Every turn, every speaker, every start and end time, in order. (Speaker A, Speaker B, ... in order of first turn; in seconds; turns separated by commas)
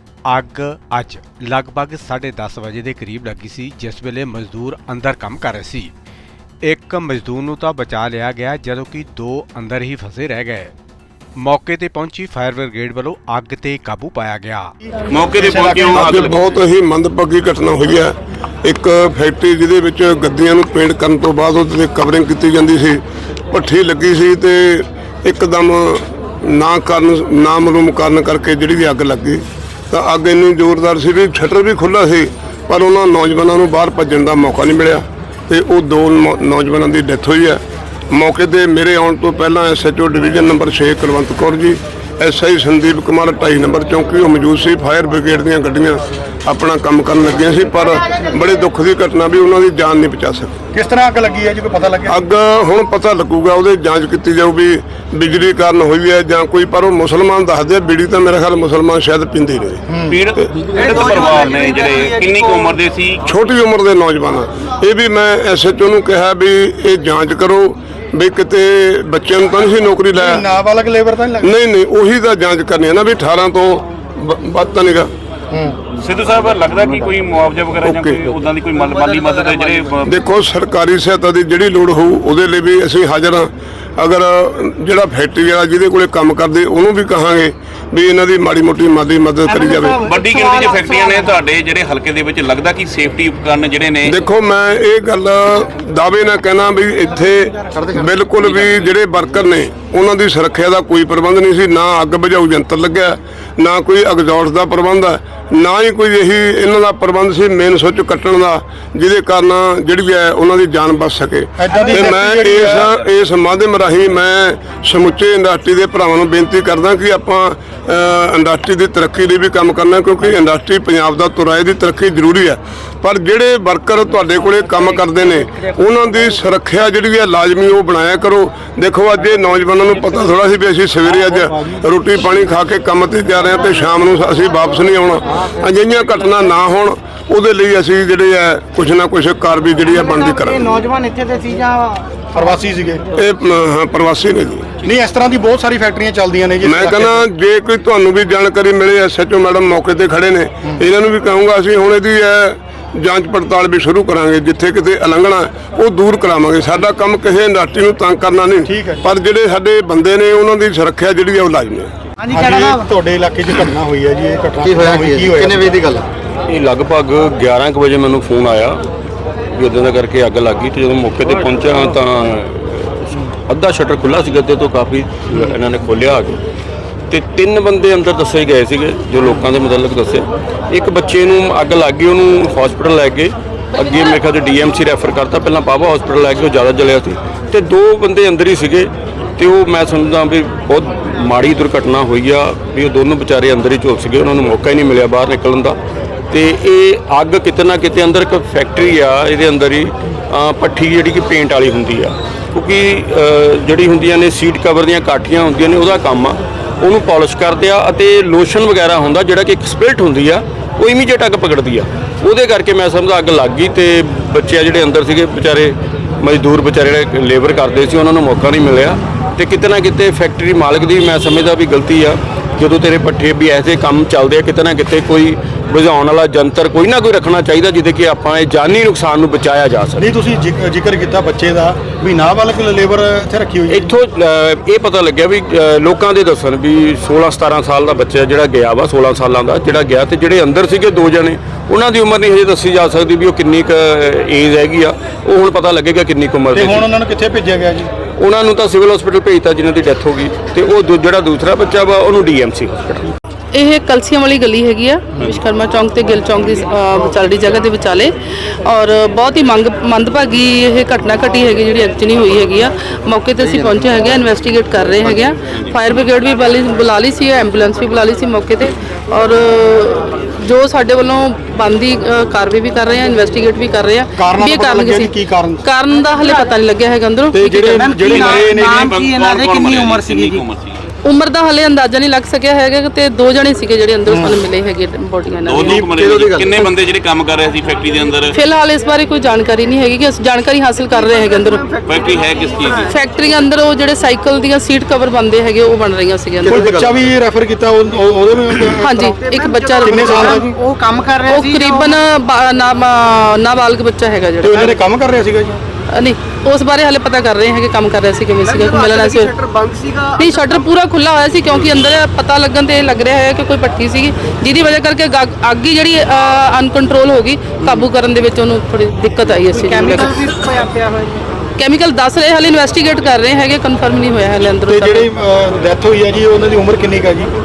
Speaker A: 0.3-5.9, Speaker A: 6.7-10.7, Speaker A: 11.4-14.7, Speaker B: 15.1-16.4, Speaker C: 15.4-16.1, Speaker D: 15.9-18.1, Speaker D: 18.6-50.6, Speaker C: 50.7-52.2, Speaker D: 52.1-60.5, Speaker C: 59.9-60.2, Speaker B: 60.1-63.3, Speaker E: 60.8-62.6, Speaker D: 63.3-70.5, Speaker C: 70.2-71.5, Speaker D: 71.4-75.1, Speaker C: 75.5-75.8, Speaker B: 76.0-80.2, Speaker D: 77.8-78.3, Speaker D: 80.0-90.1, Speaker E: 89.6-91.3, Speaker B: 90.0-94.2, Speaker D: 94.0-140.8, Speaker C: 111.6-112.9, Speaker E: 139.9-142.2, Speaker C: 142.3-143.1, Speaker D: 143.1-144.8, Speaker C: 144.8-147.2, Speaker D: 146.6-161.9, Speaker C: 158.7-159.1, Speaker E: 162.2-162.9, Speaker C: 162.3-165.8, Speaker F: 164.6-166.0, Speaker G: 166.5-168.8, Speaker G: 169.5-176.4, Speaker G: 177.1-195.8, Speaker G: 196.3-230.1, Speaker C: 230.0-233.9, Speaker G: 233.7-246.9, Speaker C: 246.5-247.9, Speaker G: 248.2-253.1, Speaker H: 253.5-277.4, Speaker C: 274.2-275.6, Speaker C: 277.3-278.9, Speaker E: 277.4-280.4, Speaker B: 278.1-280.8, Speaker H: 281.0-285.9, Speaker C: 284.1-284.4, Speaker B: 285.5-288.4, Speaker C: 285.7-286.1, Speaker F: 286.0-286.6, Speaker H: 288.3-291.7, Speaker E: 291.0-292.8, Speaker B: 291.9-292.9, Speaker H: 292.9-296.7, Speaker F: 296.4-297.1, Speaker C: 296.5-299.0, Speaker H: 298.8-300.4, Speaker E: 299.1-302.0, Speaker C: 299.8-300.6, Speaker H: 301.3-304.8, Speaker C: 304.4-305.6, Speaker H: 305.9-309.3, Speaker E: 308.5-310.6, Speaker H: 310.2-320.3, Speaker E: 319.5-321.2, Speaker H: 321.6-325.1, Speaker C: 324.7-327.3